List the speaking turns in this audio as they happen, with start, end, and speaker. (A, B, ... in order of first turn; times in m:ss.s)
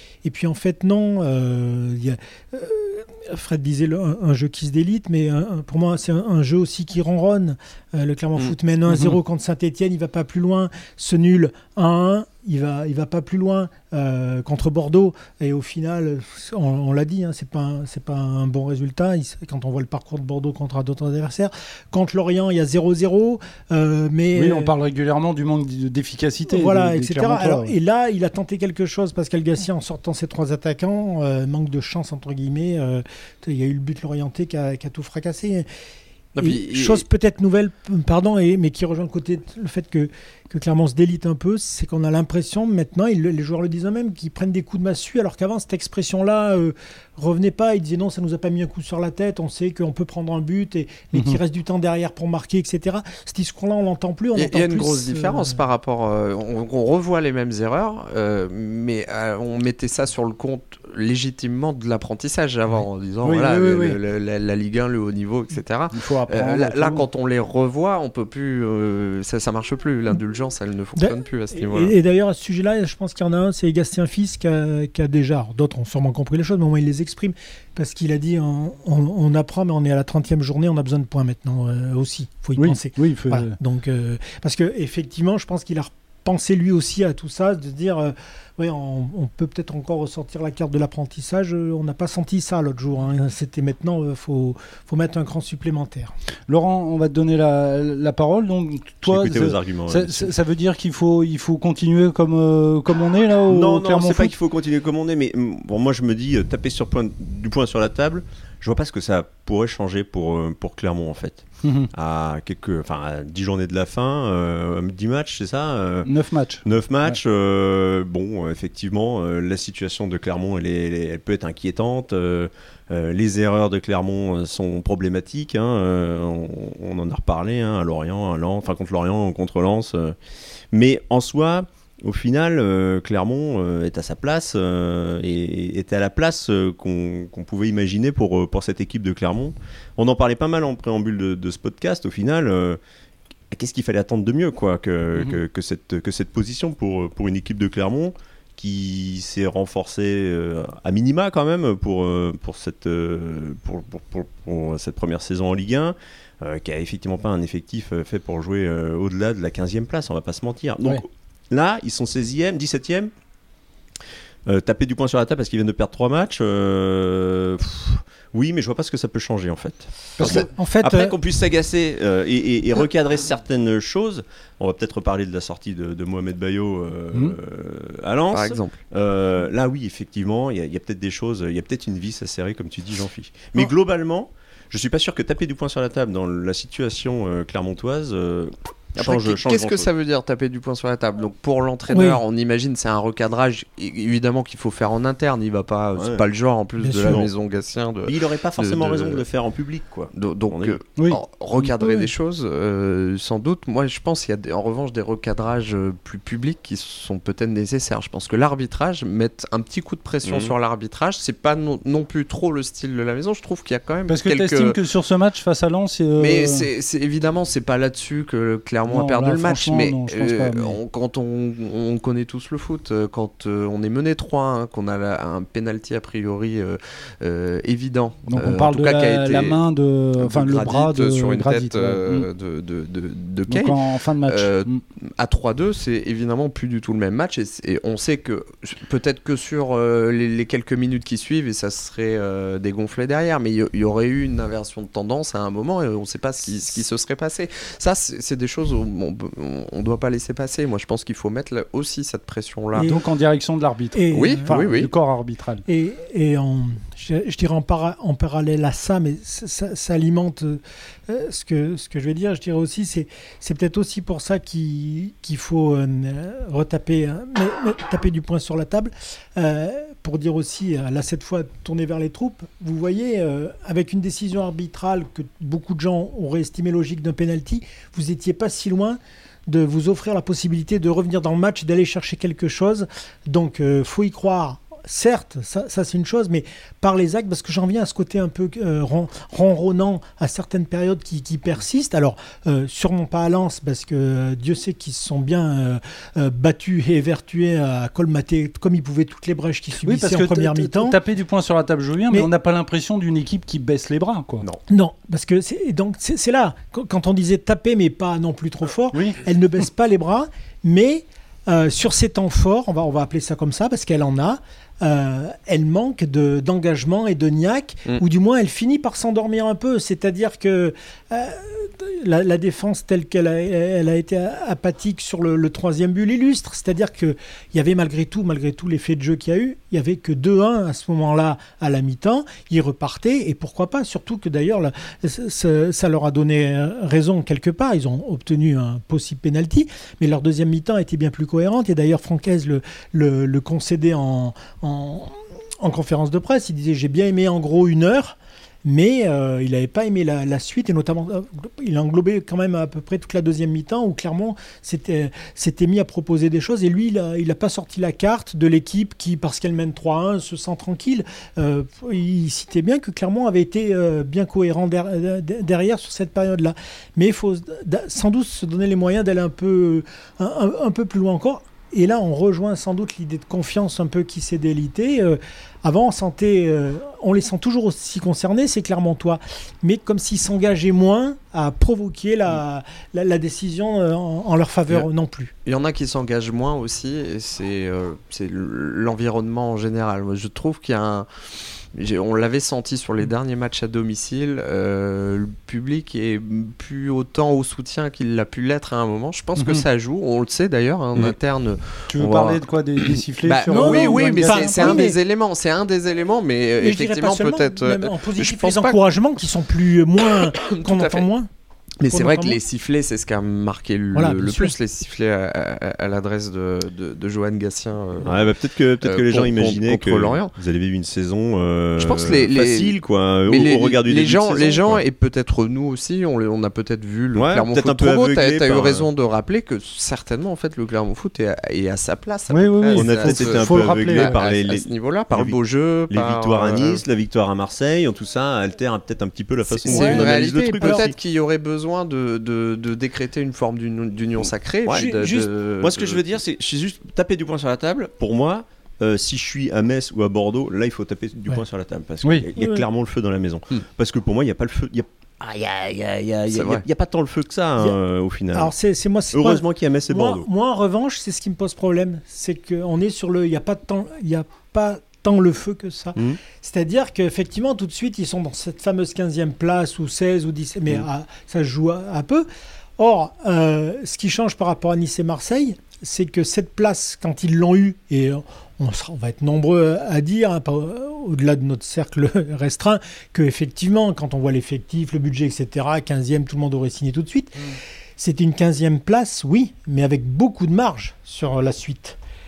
0:00.2-0:24.7 A
0:08.9-0:09.2 B
0:24.3-0:27.8 B
0:26.5-0:35.7 A
0:36.4-0:37.0 C
0:36.4-0:55.6 A
0:51.1-0:51.4 B
0:54.4-1:12.0 C
1:03.2-1:04.0 B
1:05.9-1:07.0 B
1:11.0-1:36.1 A
1:22.6-1:23.6 B
1:36.5-1:44.3 B
1:39.0-1:40.3 D
1:43.5-1:56.1 D
1:51.6-1:51.9 B
1:56.0-1:57.2 B
1:56.6-2:10.2 D
2:10.7-2:22.8 D
2:23.5-2:43.1 D
2:44.5-3:09.9 D
2:50.2-2:50.5 B
2:50.2-2:51.2 A
2:58.3-2:58.8 C
3:09.0-3:19.2 C
3:11.9-3:12.2 A
3:16.0-3:16.2 D
3:16.8-3:17.2 A
3:17.1-3:17.3 D
3:18.0-3:20.8 D
3:20.2-3:34.8 C
3:21.6-3:22.1 A
3:30.2-3:30.5 D
3:34.1-3:36.6 B
3:36.2-3:49.6 C
3:38.9-3:40.8 B
3:48.3-3:52.3 B
3:50.2-4:12.9 C
3:53.5-3:54.8 B
4:12.8-4:13.0 A
4:12.8-4:15.6 B
4:13.9-4:14.5 A
4:14.1-4:14.9 C
4:15.7-5:01.0 A
4:59.8-5:04.5 B
5:04.7-6:25.3 A
5:08.9-5:09.2 B
6:25.4-6:31.1 C
6:31.7-6:48.8 C
6:39.4-6:39.6 B
6:41.9-6:44.9 B
6:43.5-6:45.0 A
6:46.6-6:51.3 A
6:50.0-6:51.1 C
6:51.8-6:58.3 C
6:51.8-6:52.4 A
6:53.9-6:54.5 A
6:58.0-7:04.8 D
6:58.8-7:00.3 C
7:01.8-7:02.8 C
7:03.3-7:16.8 C
7:07.2-7:08.9 D
7:12.3-7:14.2 B
7:12.8-7:15.4 D
7:15.9-7:21.0 D
7:19.6-7:26.0 C
7:19.7-7:20.9 A
7:24.7-7:38.5 D
7:24.7-7:25.2 A
7:32.4-7:32.6 A
7:36.3-7:36.6 C
7:38.3-7:52.3 A
7:39.1-7:40.3 D
7:52.8-8:12.0 A